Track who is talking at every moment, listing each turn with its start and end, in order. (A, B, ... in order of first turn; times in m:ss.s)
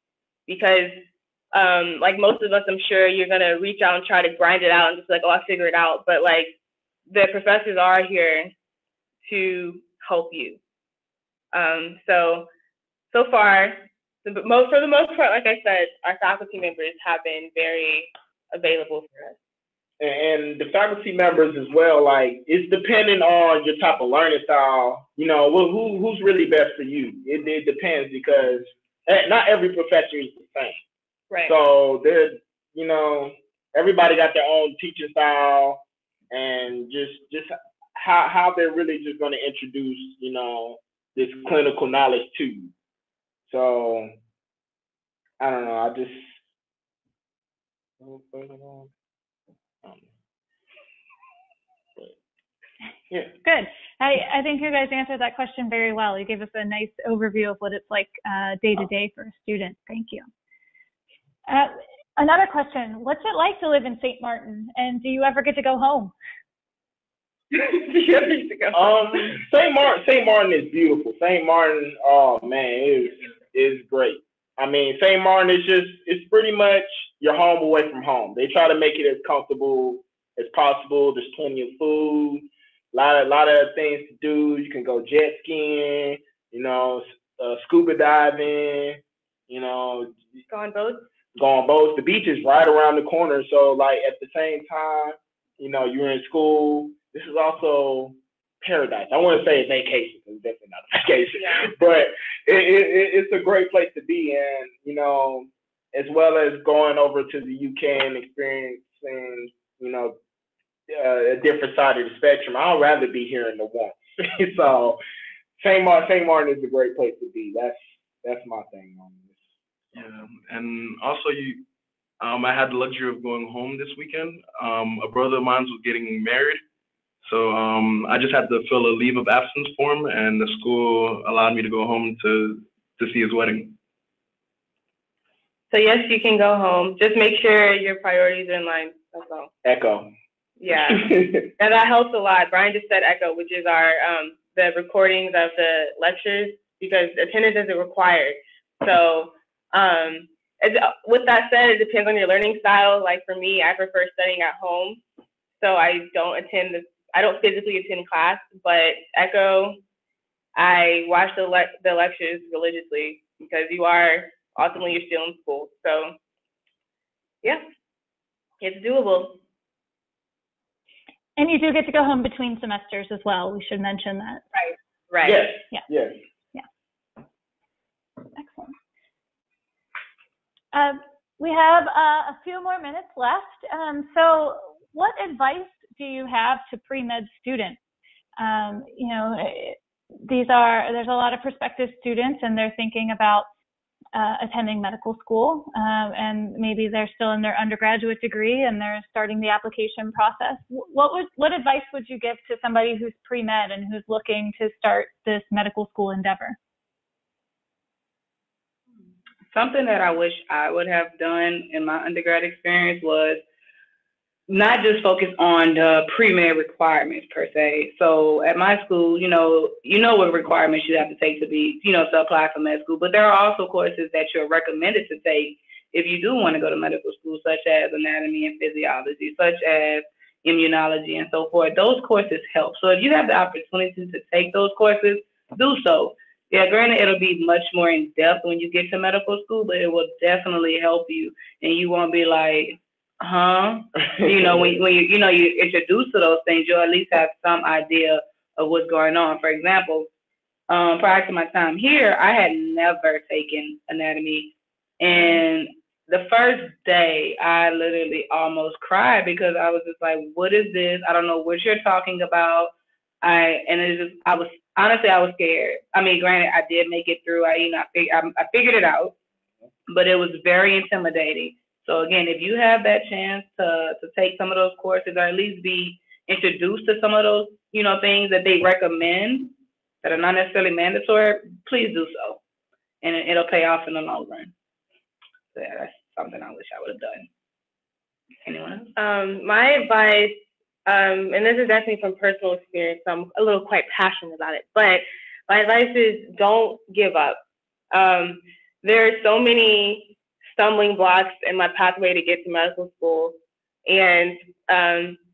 0:00.5-0:06.5 A
0:07.1-0:08.5 A
0:09.2-0:10.6 A
0:11.5-0:12.5 A
0:13.1-0:19.4 A
0:20.0-0:30.8 B
0:31.5-0:42.7 B
0:43.5-0:44.1 B
0:45.4-0:46.4 B
0:48.0-0:48.9 B
0:53.4-1:00.3 C
1:01.5-1:06.1 C
1:07.5-1:09.3 A
1:08.7-1:30.2 B
1:30.5-1:31.0 A
1:31.3-1:50.2 B
1:41.4-1:41.7 A
1:50.9-1:55.0 B
1:55.6-1:59.4 B
1:59.9-2:01.6 D
2:02.2-2:06.6 D
2:07.2-2:13.7 D
2:15.7-2:19.5 A
2:19.6-2:20.1 B
2:20.6-2:35.0 A
2:20.9-2:21.4 B
2:35.6-2:39.8 A
2:40.6-2:46.1 A
2:48.6-2:49.4 A
2:51.4-2:54.4 C
2:54.6-2:55.5 A
2:55.2-2:56.2 B
2:58.4-2:58.7 C
3:00.7-3:07.8 C
3:08.4-3:13.5 C
3:14.1-3:26.6 C
3:29.5-3:33.4 E
3:34.5-4:10.1 E
4:10.7-4:29.1 E
4:29.9-4:42.4 E
4:43.0-4:44.5 E
4:45.5-4:47.3 E
4:48.4-4:48.9 E
4:49.0-4:57.4 A
4:57.9-5:05.2 A